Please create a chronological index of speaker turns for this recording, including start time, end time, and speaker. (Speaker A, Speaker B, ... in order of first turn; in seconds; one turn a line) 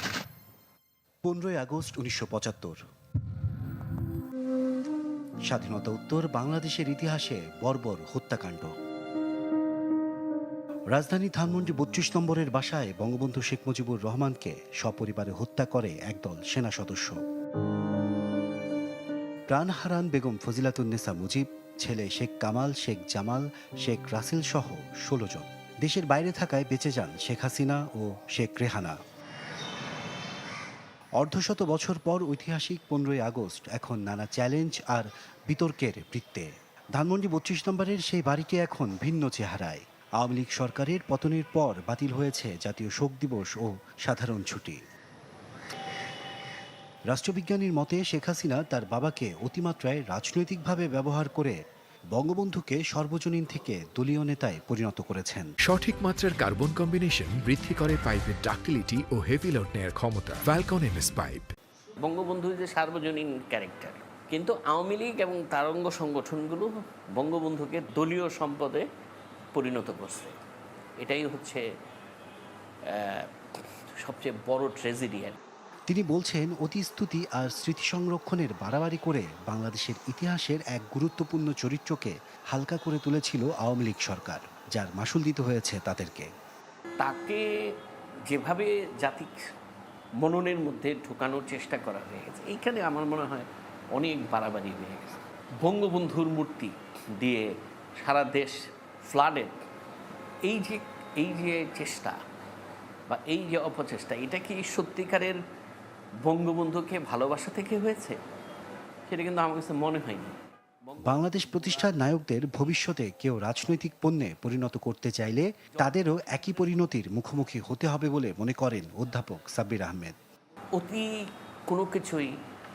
Speaker A: 1.2-2.8
Speaker A: 5.5-8.7
Speaker A: 10.9-17.2
Speaker A: 19.5-29.0
Speaker A: 31.2-44.8
Speaker A: 47.1-51.5
Speaker A: 52.1-55.5
Speaker B: 55.6-61.5
Speaker C: 62.0-68.8
Speaker C: 69.5-70.3
Speaker C: 71.0-71.6
Speaker C: 72.9-75.4
Speaker A: 75.9-86.3
Speaker C: 87.0-87.5
Speaker C: 88.3-89.4
Speaker C: 90.2-99.5
Speaker C: 100.4-102.2
Speaker C: 103.1-105.4
Speaker C: 106.2-108.2
Speaker C: 109.1-112.0
Speaker A: 111.0-120.1
Speaker C: 120.7-121.1
Speaker C: 121.7-122.3